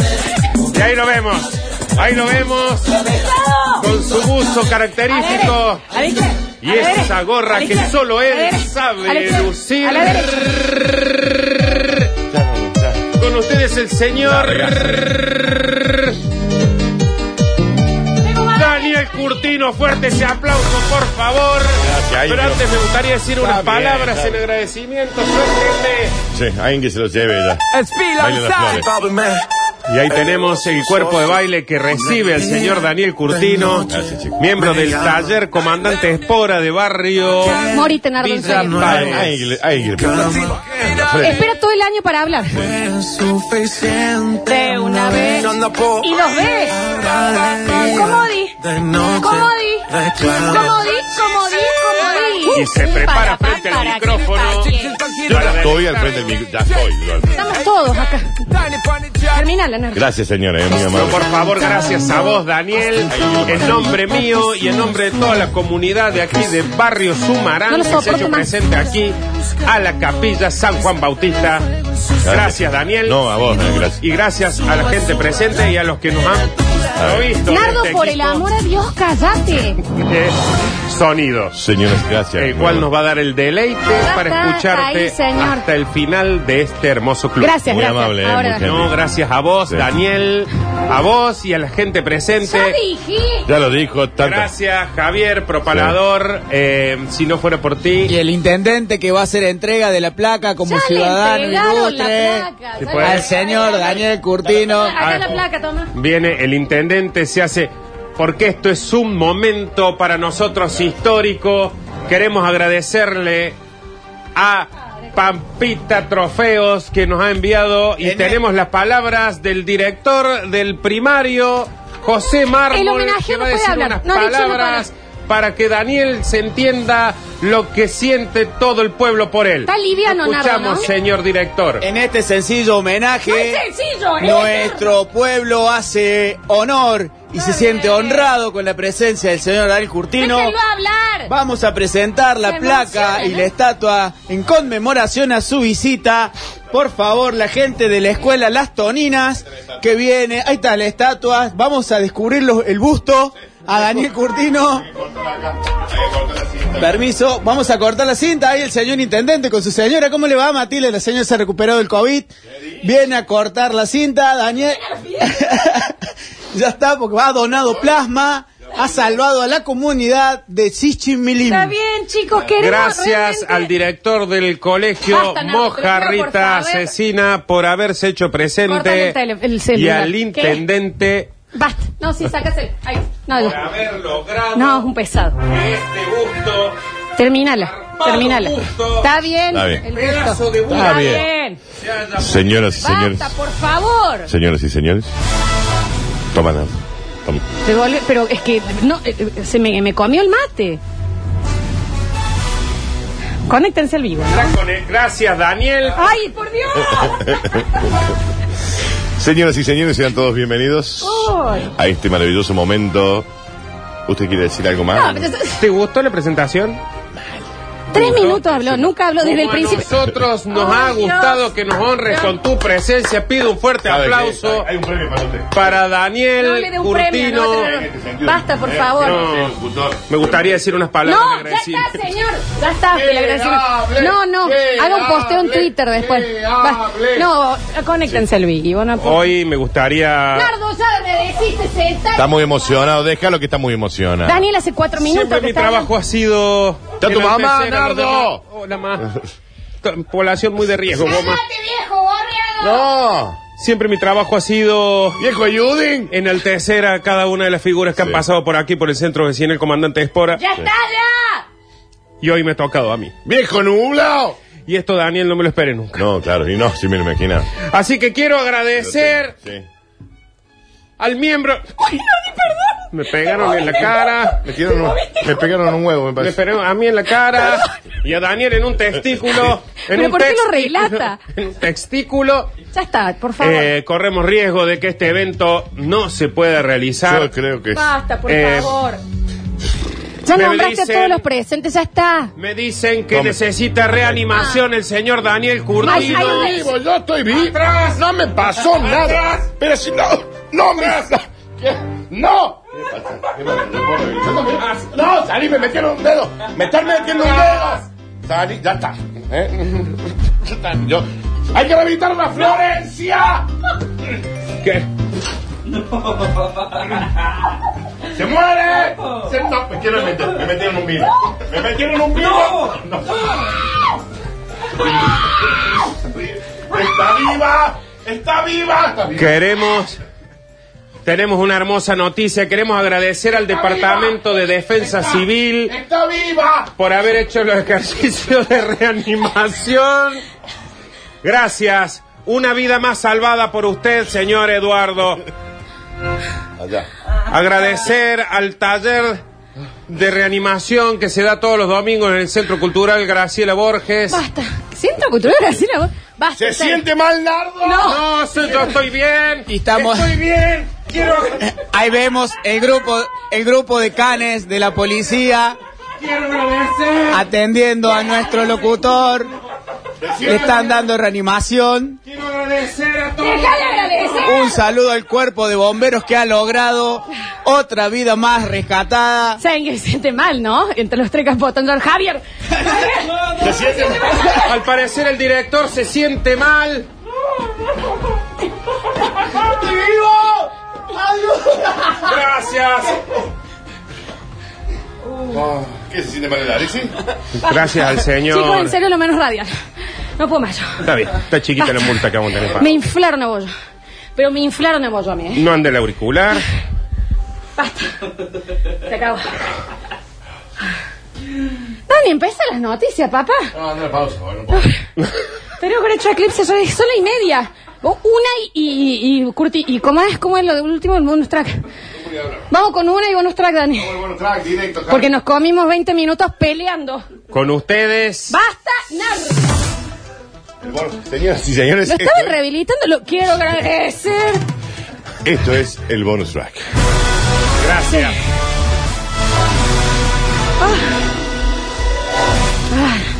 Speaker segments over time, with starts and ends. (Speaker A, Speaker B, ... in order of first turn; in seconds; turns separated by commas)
Speaker A: 0.7-2.9, Speaker B: 3.1-3.8, Speaker A: 3.8-5.8, Speaker B: 5.1-10.5, Speaker A: 6.6-10.8, Speaker C: 12.3-13.1, Speaker A: 13.2-16.2, Speaker C: 14.2-15.0, Speaker B: 18.3-18.9, Speaker A: 18.4-26.2, Speaker C: 21.8-22.6, Speaker C: 23.4-24.4, Speaker C: 26.3-28.9, Speaker A: 29.9-39.4, Speaker C: 33.9-34.5, Speaker B: 37.6-39.1, Speaker C: 38.8-41.4, Speaker B: 41.2-42.8, Speaker B: 44.2-46.8, Speaker B: 47.5-55.0, Speaker A: 52.5-56.3, Speaker C: 55.3-57.4, Speaker B: 57.3-60.0, Speaker C: 59.9-61.2, Speaker A: 60.7-71.7, Speaker C: 63.1-64.0, Speaker B: 67.7-68.5, Speaker A: 72.2-73.2, Speaker C: 72.2-74.0, Speaker A: 74.0-78.5, Speaker C: 77.0-77.3, Speaker B: 77.5-79.8, Speaker A: 79.9-81.6, Speaker C: 81.5-82.9, Speaker A: 82.3-87.6, Speaker B: 84.0-85.6, Speaker B: 87.4-88.7, Speaker C: 87.7-88.9, Speaker A: 88.6-92.8, Speaker B: 92.4-93.5, Speaker C: 93.4-94.5, Speaker A: 94.2-98.1, Speaker C: 95.7-96.0, Speaker D: 98.1-102.5, Speaker B: 100.6-104.0, Speaker A: 102.8-103.3, Speaker D: 103.0-105.0, Speaker B: 104.6-105.9, Speaker A: 105.0-105.4, Speaker A: 105.9-113.5, Speaker A: 114.3-131.8, Speaker D: 118.0-118.4, Speaker B: 122.7-124.8, Speaker B: 129.7-130.9, Speaker D: 131.8-133.6, Speaker B: 133.2-134.9, Speaker D: 134.2-140.5, Speaker B: 137.3-138.3, Speaker B: 140.2-141.3, Speaker D: 141.3-154.8, Speaker B: 142.4-143.5, Speaker C: 154.8-157.0, Speaker D: 156.8-166.0, Speaker B: 164.8-165.4, Speaker D: 166.5-171.7, Speaker B: 171.4-173.7, Speaker A: 172.4-179.2, Speaker B: 175.0-176.9, Speaker B: 178.7-180.6, Speaker A: 179.7-181.3, Speaker B: 181.5-183.6, Speaker A: 183.3-184.9, Speaker B: 184.5-185.4, Speaker A: 185.4-186.8, Speaker B: 187.2-191.6, Speaker A: 187.6-189.1, Speaker C: 189.5-189.8, Speaker A: 189.9-192.5, Speaker C: 190.7-191.2, Speaker C: 192.1-193.3, Speaker B: 192.8-194.3, Speaker C: 194.3-195.1, Speaker C: 196.3-196.7, Speaker B: 197.6-200.8, Speaker B: 203.5-204.5, Speaker A: 204.3-206.2, Speaker B: 206.0-207.9, Speaker C: 206.8-207.7, Speaker C: 209.2-213.3, Speaker B: 211.0-211.7, Speaker C: 214.1-215.3, Speaker B: 214.9-215.6, Speaker A: 215.6-216.8, Speaker B: 217.9-219.9, Speaker A: 217.9-224.7, Speaker B: 220.5-221.5, Speaker C: 223.8-225.7, Speaker A: 225.5-227.7, Speaker B: 226.4-229.2, Speaker C: 227.5-230.6, Speaker A: 229.0-232.0, Speaker B: 231.0-239.3, Speaker C: 232.9-237.3, Speaker A: 239.0-240.5, Speaker B: 240.3-242.4, Speaker C: 242.1-244.4, Speaker B: 244.2-245.9, Speaker A: 245.0-249.1, Speaker C: 247.0-248.4, Speaker C: 249.0-249.2, Speaker A: 249.8-251.4, Speaker B: 251.0-252.9, Speaker C: 252.6-253.4, Speaker A: 253.6-255.2, Speaker C: 255.2-256.1, Speaker A: 256.1-260.4, Speaker C: 258.0-258.2, Speaker B: 260.3-261.4, Speaker A: 262.2-263.1, Speaker C: 263.2-264.4, Speaker A: 264.6-266.0, Speaker C: 265.9-267.5, Speaker A: 267.6-269.3, Speaker C: 268.8-269.6, Speaker A: 271.0-271.9, Speaker A: 272.9-274.4, Speaker C: 274.4-276.4, Speaker B: 274.6-275.5, Speaker A: 276.2-282.5, Speaker B: 279.9-281.2, Speaker B: 282.7-283.7, Speaker A: 283.4-287.3, Speaker C: 287.0-287.9, Speaker B: 287.7-289.0, Speaker A: 288.3-288.7, Speaker B: 290.2-292.3, Speaker A: 290.3-291.2, Speaker A: 292.4-296.6, Speaker C: 293.1-293.4, Speaker B: 295.8-296.7, Speaker C: 295.8-313.4, Speaker A: 297.3-298.0, Speaker A: 298.6-299.4, Speaker A: 307.3-307.8, Speaker C: 318.1-323.5, Speaker C: 324.7-329.4, Speaker A: 329.1-330.0, Speaker A: 331.0-335.7, Speaker C: 333.7-334.1, Speaker C: 335.7-336.7, Speaker A: 336.8-340.2, Speaker A: 341.2-345.2, Speaker C: 346.6-346.9, Speaker A: 347.3-349.2, Speaker A: 349.9-354.2, Speaker B: 354.1-356.8, Speaker C: 356.4-357.9, Speaker B: 357.6-358.0, Speaker A: 357.8-361.4, Speaker D: 359.5-360.2, Speaker D: 361.4-365.6, Speaker A: 366.0-367.2, Speaker D: 367.1-369.3, Speaker C: 370.0-370.7, Speaker D: 370.2-372.0, Speaker A: 372.1-374.1, Speaker B: 373.2-374.6, Speaker D: 374.2-379.4, Speaker B: 379.4-384.4, Speaker C: 383.4-384.2, Speaker A: 384.4-386.9, Speaker C: 389.6-390.5, Speaker B: 391.5-391.8, Speaker A: 391.9-393.0, Speaker C: 395.2-396.9, Speaker A: 397.4-398.8, Speaker B: 398.1-399.5, Speaker B: 400.1-400.8, Speaker A: 400.8-402.8, Speaker B: 401.6-403.5, Speaker B: 404.1-405.4, Speaker A: 405.3-406.4, Speaker B: 407.6-408.1, Speaker B: 408.7-409.4, Speaker B: 411.9-413.5, Speaker C: 413.5-414.6, Speaker B: 415.6-421.6, Speaker C: 422.0-422.5, Speaker B: 422.5-424.0, Speaker C: 423.8-425.1, Speaker B: 424.9-427.1, Speaker A: 427.3-428.4, Speaker B: 428.3-429.6, Speaker C: 430.6-432.4, Speaker B: 431.9-434.4, Speaker C: 435.2-436.6, Speaker A: 437.6-438.2, Speaker B: 437.9-438.2, Speaker B: 440.6-440.9, Speaker B: 442.7-443.1